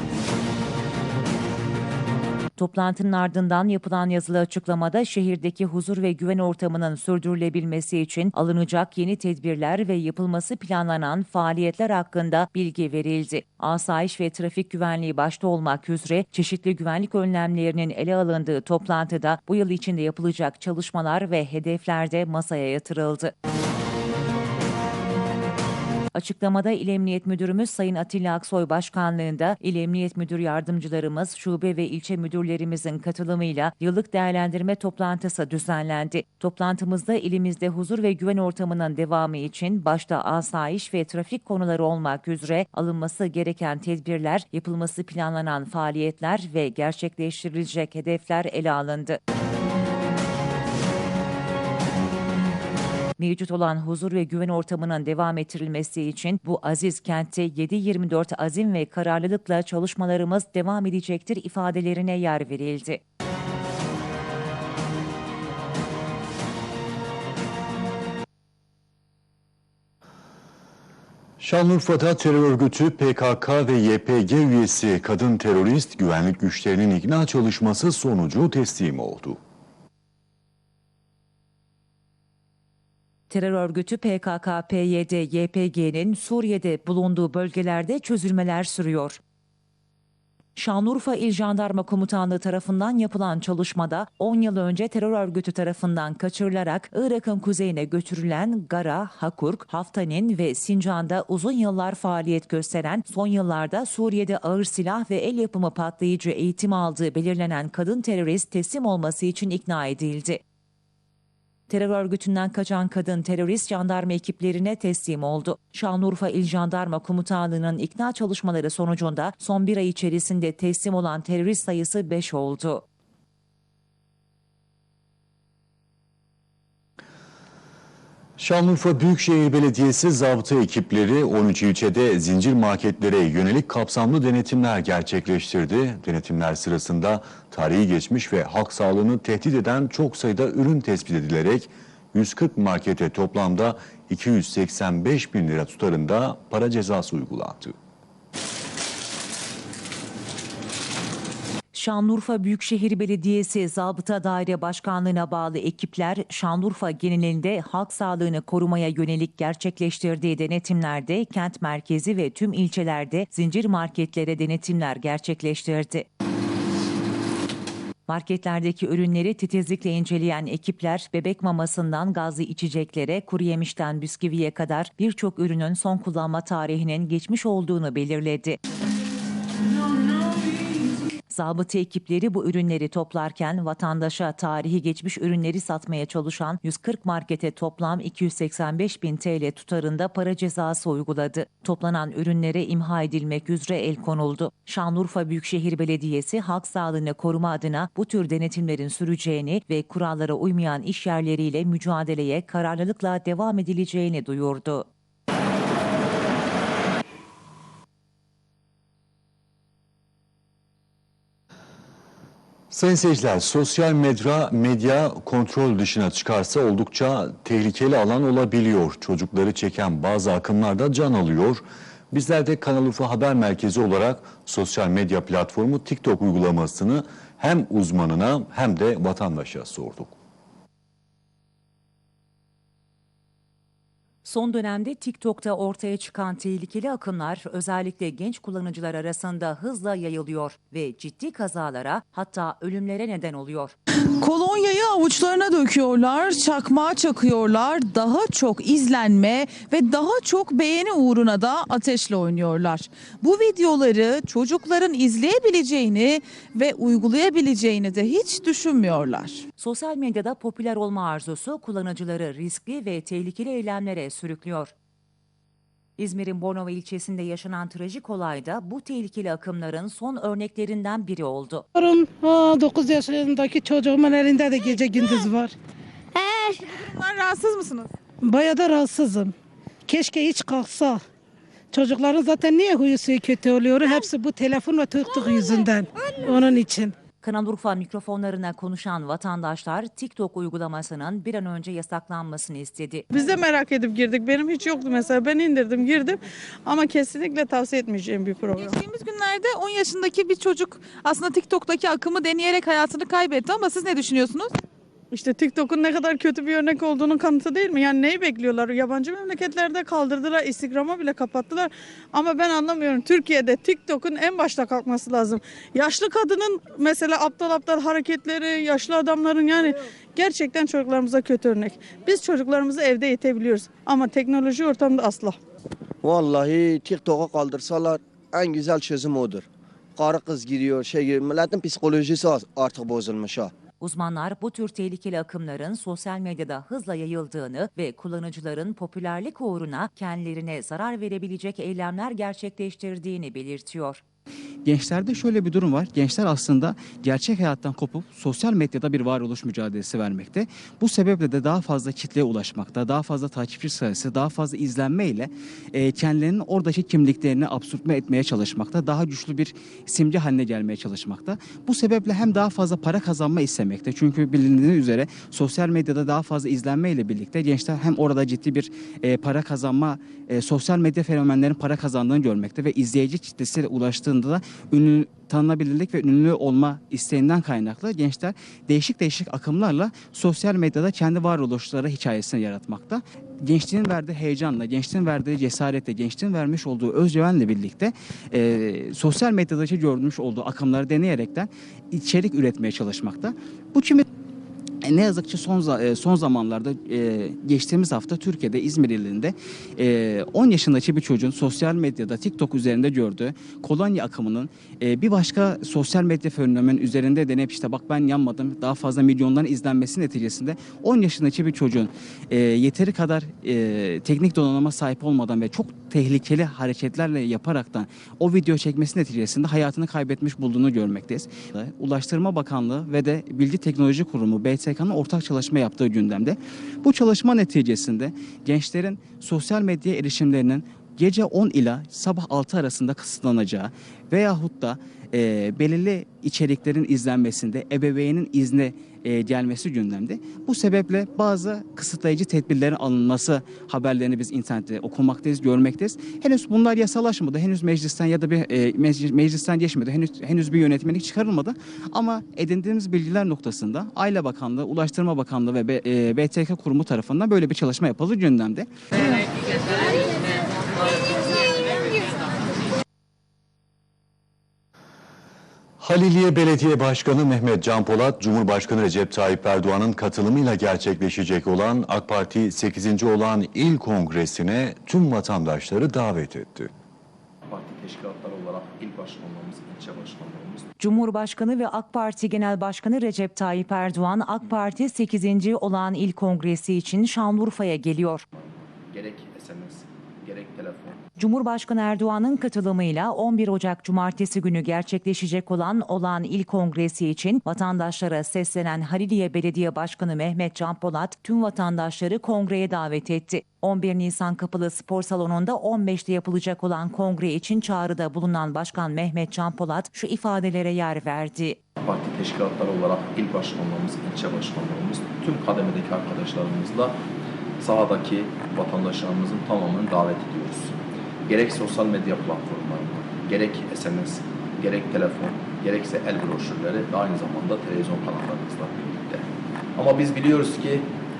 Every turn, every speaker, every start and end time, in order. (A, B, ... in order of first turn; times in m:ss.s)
0:02.6-0:23.3 A
0:26.1-0:49.2 A
0:53.2-1:03.0 A
1:11.4-1:19.4 B
1:23.3-1:29.2 A
1:30.6-1:50.4 A
1:51.7-2:02.8 A
2:08.4-2:27.7 B
2:31.7-2:46.1 A
2:48.1-2:58.6 A
3:01.3-3:24.8 A
3:32.7-3:50.2 B
3:54.2-4:03.8 A
4:04.2-4:19.4 C
4:19.6-4:24.7 A
4:26.0-4:31.6 A
4:31.7-4:35.5 D
4:36.2-4:37.9 C
4:38.2-4:39.3 D
4:39.8-4:41.0 D
4:41.7-4:46.9 D
4:47.2-4:53.0 A
4:53.1-4:58.8 E
4:58.6-5:04.5 C
5:05.1-5:25.4 E
5:26.0-5:29.4 F
5:30.0-5:33.5 F
5:33.8-5:44.0 A
5:44.6-6:34.0 G
6:34.8-7:38.7 G
7:45.8-7:56.7 B
7:57.4-8:00.7 H
8:00.8-8:08.2 A
8:08.9-8:11.0 H
8:11.2-8:31.6 A
8:31.8-8:37.0 H
8:37.6-8:40.7 H
8:41.2-8:49.2 H
8:49.8-8:50.9 H